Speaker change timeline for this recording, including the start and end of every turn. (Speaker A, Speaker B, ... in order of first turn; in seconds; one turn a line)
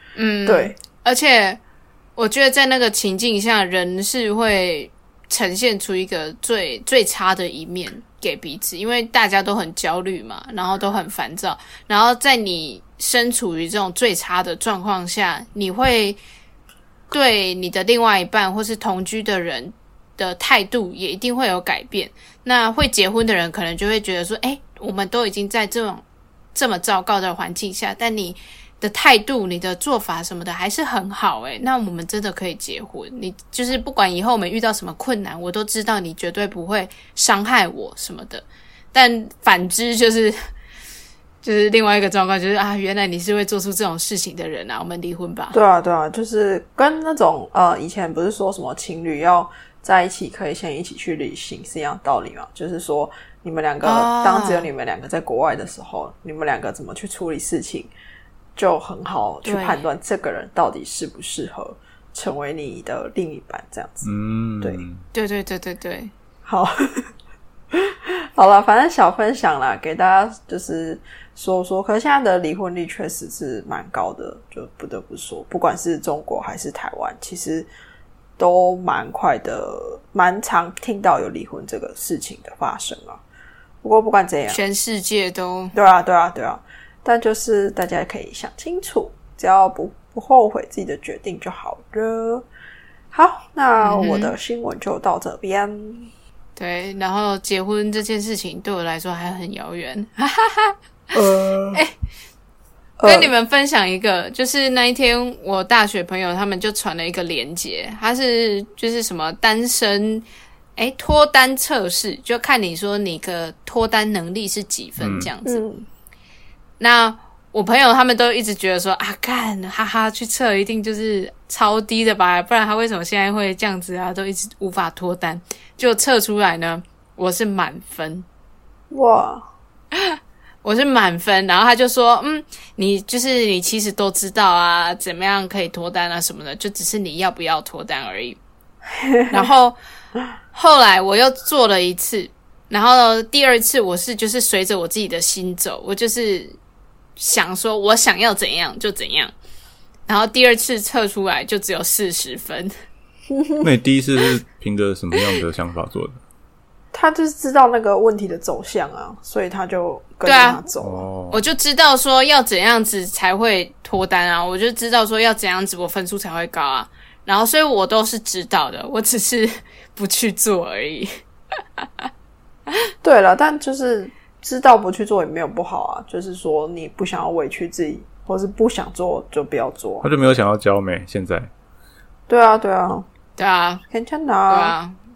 Speaker A: 0.1-1.6
Speaker B: 0.4-0.8
Speaker A: 2.2-16.2
Speaker A: 17.1-26.0
Speaker A: 26.5-40.4
Speaker A: 41.4-45.5
Speaker B: 45.5-57.9
Speaker A: 53.8-54.7
Speaker B: 58.5-64.1
Speaker A: 59.4-59.8
Speaker C: 64.0-65.0
Speaker A: 65.1-66.1
Speaker B: 66.4-67.1
Speaker B: 67.7-77.7
Speaker B: 78.4-83.2
Speaker B: 83.8-84.6
Speaker A: 84.5-85.7
Speaker B: 85.7-92.4
Speaker B: 93.1-96.1
Speaker A: 93.8-94.3
Speaker A: 96.5-101.1
Speaker B: 101.1-101.8
Speaker B: 103.0-103.3
Speaker A: 103.0-110.2
Speaker A: 110.8-115.6
Speaker C: 115.0-115.3
Speaker B: 115.4-115.8
Speaker A: 116.8-128.2
Speaker B: 128.9-129.5
Speaker A: 129.9-138.4
Speaker B: 139.0-139.4
Speaker A: 139.3-139.8
Speaker A: 140.5-146.6
Speaker A: 147.2-149.3
Speaker A: 150.1-152.7
Speaker B: 153.3-153.7
Speaker C: 153.6-156.2
Speaker B: 156.9-161.1
Speaker A: 160.2-160.6
Speaker C: 160.8-161.4
Speaker A: 161.3-171.1
Speaker A: 171.8-172.1
Speaker B: 173.0-180.1
Speaker C: 180.0-181.5
Speaker B: 182.3-183.1
Speaker A: 183.4-183.8
Speaker B: 183.9-184.7
Speaker A: 184.5-185.0